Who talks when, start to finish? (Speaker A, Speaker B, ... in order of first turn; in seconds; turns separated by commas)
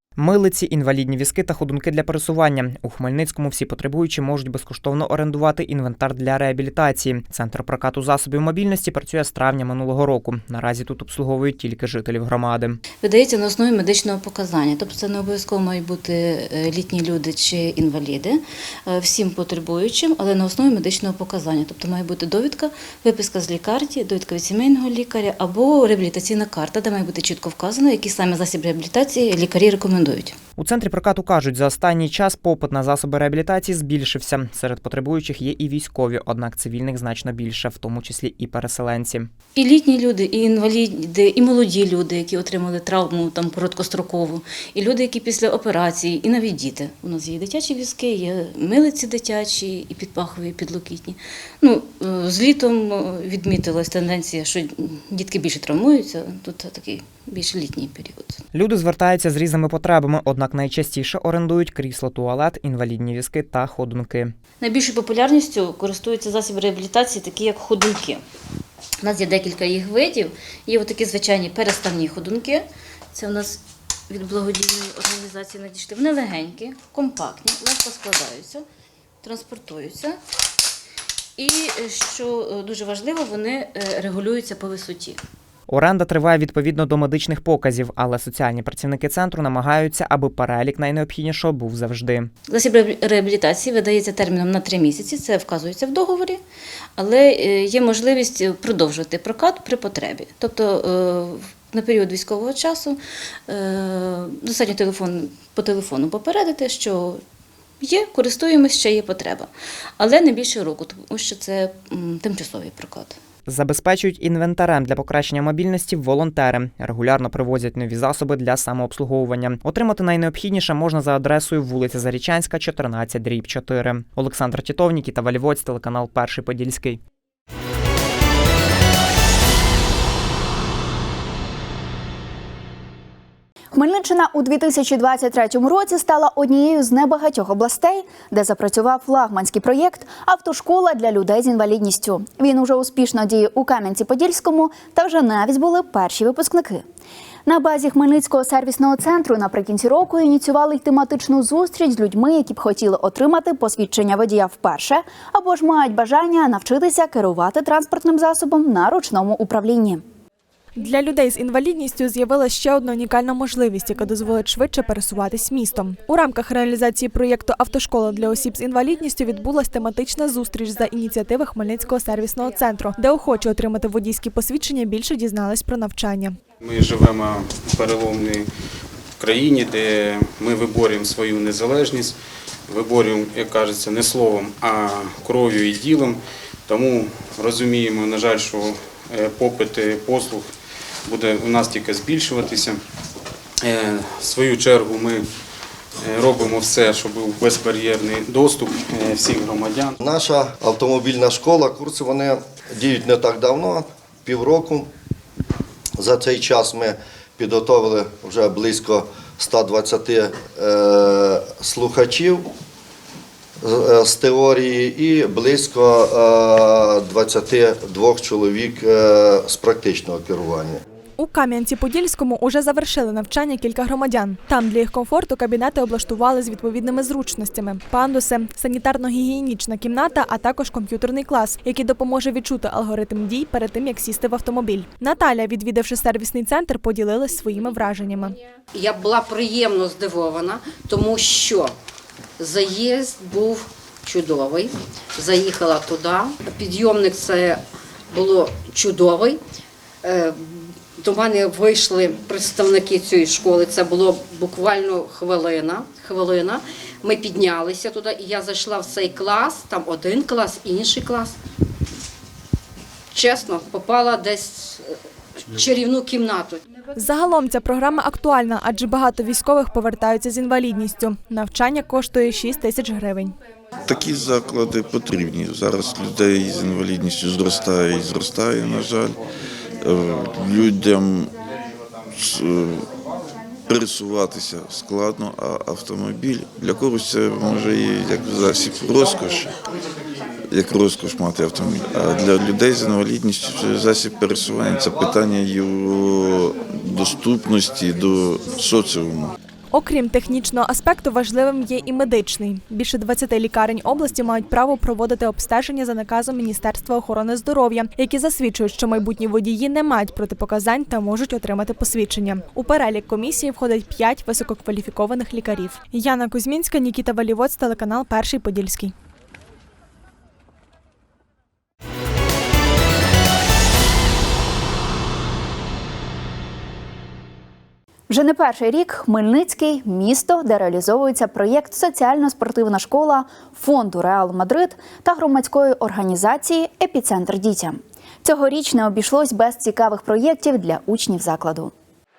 Speaker A: 0.2-12.8, Speaker B: 13.0-30.4, Speaker A: 30.6-39.3, Speaker B: 39.5-58.4, Speaker A: 58.5-64.3, Speaker B: 64.6-68.2, Speaker B: 69.0-78.6, Speaker B: 79.2-80.2, Speaker B: 81.4-85.2, Speaker A: 85.7-92.3, Speaker B: 92.5-96.4, Speaker B: 97.0-107.2, Speaker B: 107.8-113.2, Speaker A: 113.5-127.0, Speaker C: 133.7-146.8, Speaker C: 147.5-160.0, Speaker D: 160.8-176.4, Speaker E: 176.6-178.5, Speaker E: 179.2-182.2, Speaker E: 182.7-190.5, Speaker E: 191.1-192.8, Speaker E: 193.6-195.2, Speaker E: 196.0-200.0, Speaker F: 200.0-204.9, Speaker F: 206.0-212.5, Speaker F: 213.6-220.8, Speaker D: 221.2-238.3, Speaker G: 238.8-241.7, Speaker G: 242.4-247.6, Speaker G: 248.1-249.4, Speaker G: 250.0-250.4, Speaker G: 251.0-261.4, Speaker G: 263.1-264.9, Speaker G: 265.5-266.6, Speaker D: 266.9-273.3, Speaker E: 273.9-279.1, Speaker H: 273.9-279.1, Speaker H: 279.9-281.1, Speaker E: 280.6-281.3, Speaker H: 282.4-282.6, Speaker H: 283.7-289.3, Speaker E: 283.7-289.5, Speaker E: 290.6-296.3, Speaker H: 290.6-296.4, Speaker H: 296.9-299.0, Speaker E: 297.0-299.3, Speaker D: 299.7-318.9, Speaker C: 328.1-341.7